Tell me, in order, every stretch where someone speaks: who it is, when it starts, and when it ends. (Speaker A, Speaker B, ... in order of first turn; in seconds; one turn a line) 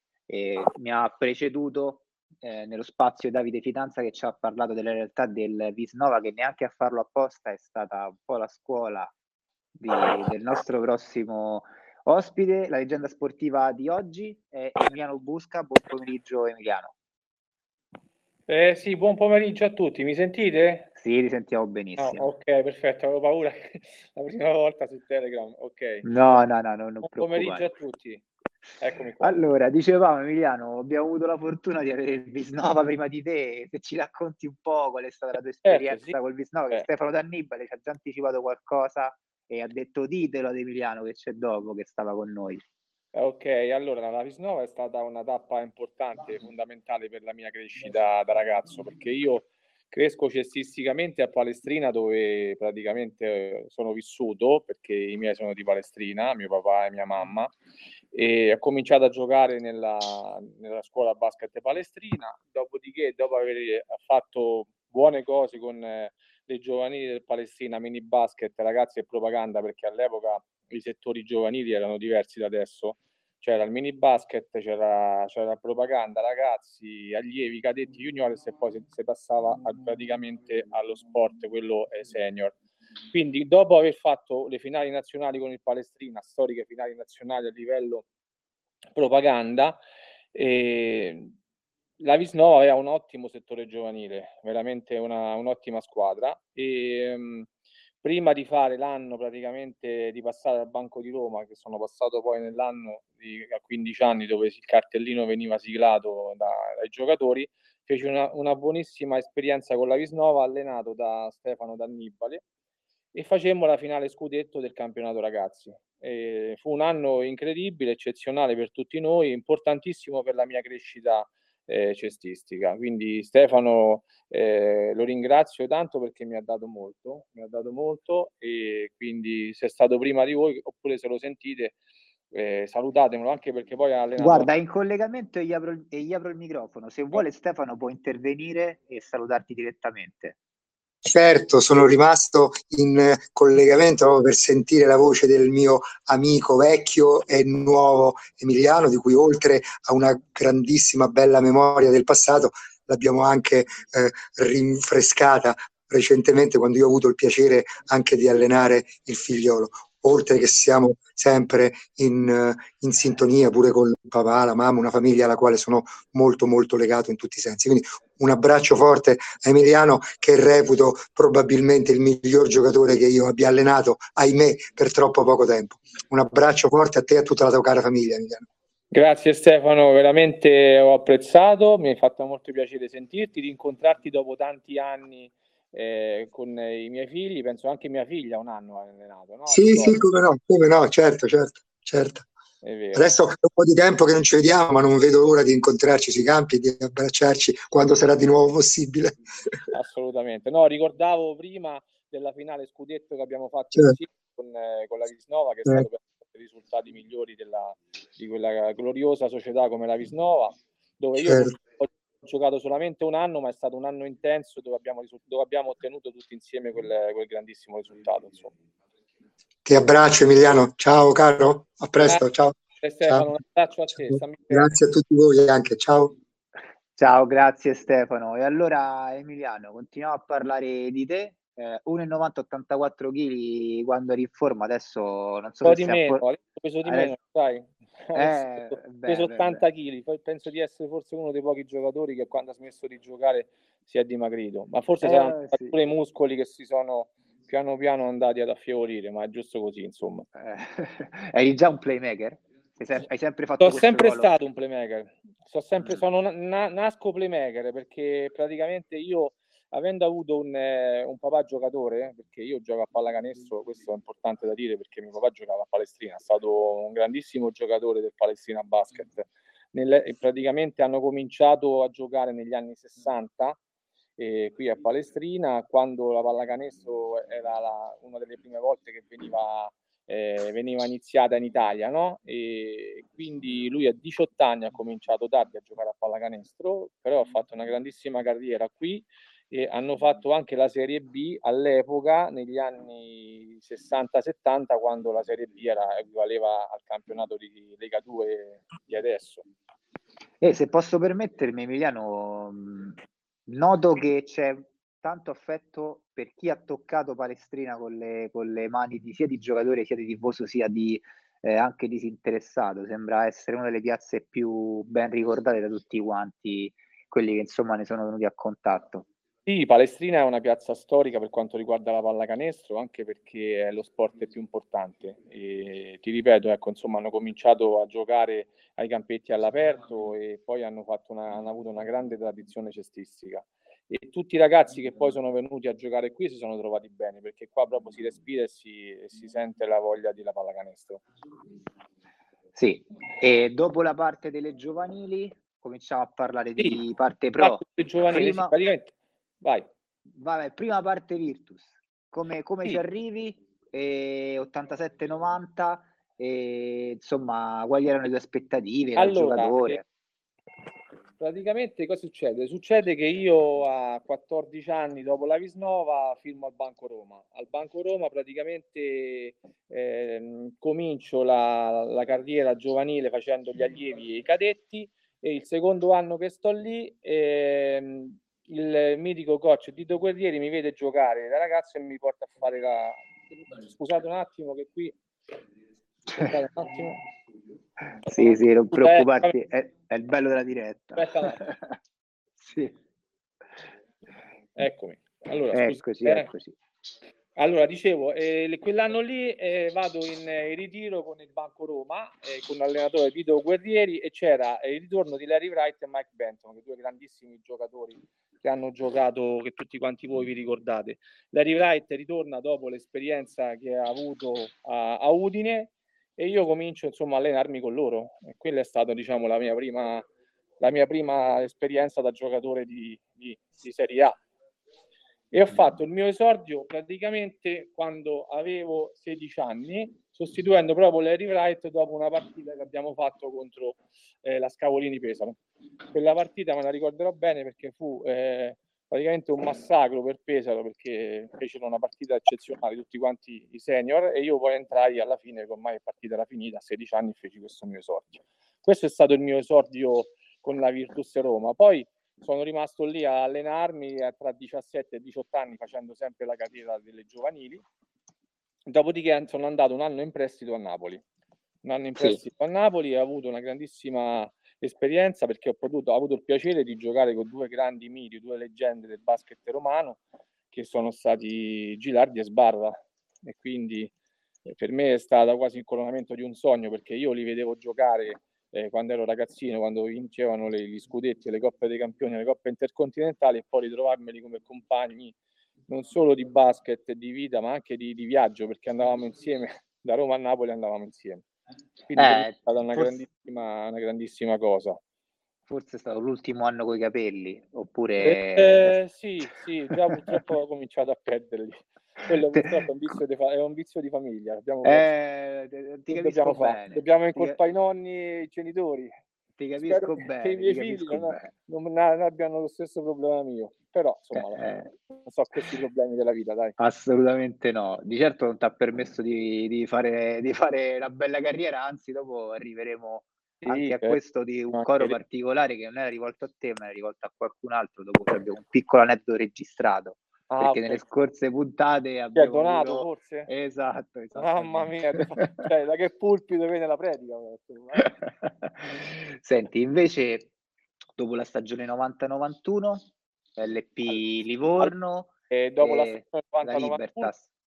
Speaker A: 0.3-9.1
Speaker A: 9.8-16.9
Speaker B: 18.5-20.9
Speaker A: 20.9-22.3
Speaker B: 22.0-26.4
Speaker A: 26.0-27.6
Speaker B: 27.0-28.2
Speaker B: 28.8-29.3
Speaker A: 29.2-42.6
Speaker B: 35.6-36.1
Speaker B: 43.1-57.5
Speaker B: 58.1-82.5
Speaker B: 83.1-88.0
Speaker B: 88.9-89.8
Speaker B: 90.3-91.3
Speaker B: 92.0-97.5
Speaker B: 98.0-112.4
Speaker B: 113.1-131.8
Speaker B: 132.3-134.5
Speaker A: 134.2-140.3
Speaker C: 141.0-178.4
Speaker B: 178.9-190.0
Speaker C: 189.5-192.2
Speaker B: 192.6-193.2
Speaker C: 192.9-199.5
Speaker B: 199.7-218.5
Speaker C: 211.2-211.5
Speaker C: 219.7-223.3
Speaker B: 222.8-224.7
Speaker C: 224.1-226.1
Speaker A: 227.0-236.2
Speaker B: 235.6-250.2
Speaker A: 236.8-237.1
Speaker A: 238.1-239.6
Speaker A: 245.0-245.7
Speaker A: 250.3-254.3
Speaker B: 253.6-273.6
Speaker B: 274.2-299.4
Speaker A: 300.4-319.1
Speaker B: 319.4-341.0
Speaker A: 342.5-348.5
Speaker B: 347.4-349.7
Speaker A: 350.2-359.8
Speaker B: 359.0-359.8
Speaker B: 361.2-383.0
Speaker B: 383.6-384.9
Speaker B: 386.1-387.0
Speaker A: 388.0-391.6
Speaker B: 388.2-389.3
Speaker B: 391.0-391.4
Speaker A: 392.4-392.7
Speaker B: 394.6-396.3
Speaker A: 395.5-396.5
Speaker B: 397.4-420.1
Speaker B: 420.6-424.1
Speaker B: 425.3-435.4
Speaker B: 435.9-457.6
Speaker B: 458.7-461.0
Speaker B: 461.6-470.0
Speaker B: 470.5-473.9
Speaker B: 474.4-485.1
Speaker B: 485.7-491.2
Speaker B: 491.9-494.8
Speaker A: 491.9-493.0
Speaker A: 495.5-498.8
Speaker B: 498.0-504.9
Speaker A: 499.8-500.2
Speaker A: 504.6-507.4
Speaker B: 505.9-508.9
Speaker A: 509.4-511.3
Speaker B: 509.6-516.5
Speaker A: 514.1-514.7
Speaker A: 516.6-535.2
Speaker B: 523.4-524.0
Speaker B: 524.5-525.0
Speaker B: 530.3-530.8
Speaker B: 532.1-533.3
Speaker B: 534.1-537.9
Speaker A: 537.8-540.3
Speaker A: 541.0-547.3
Speaker B: 545.3-547.1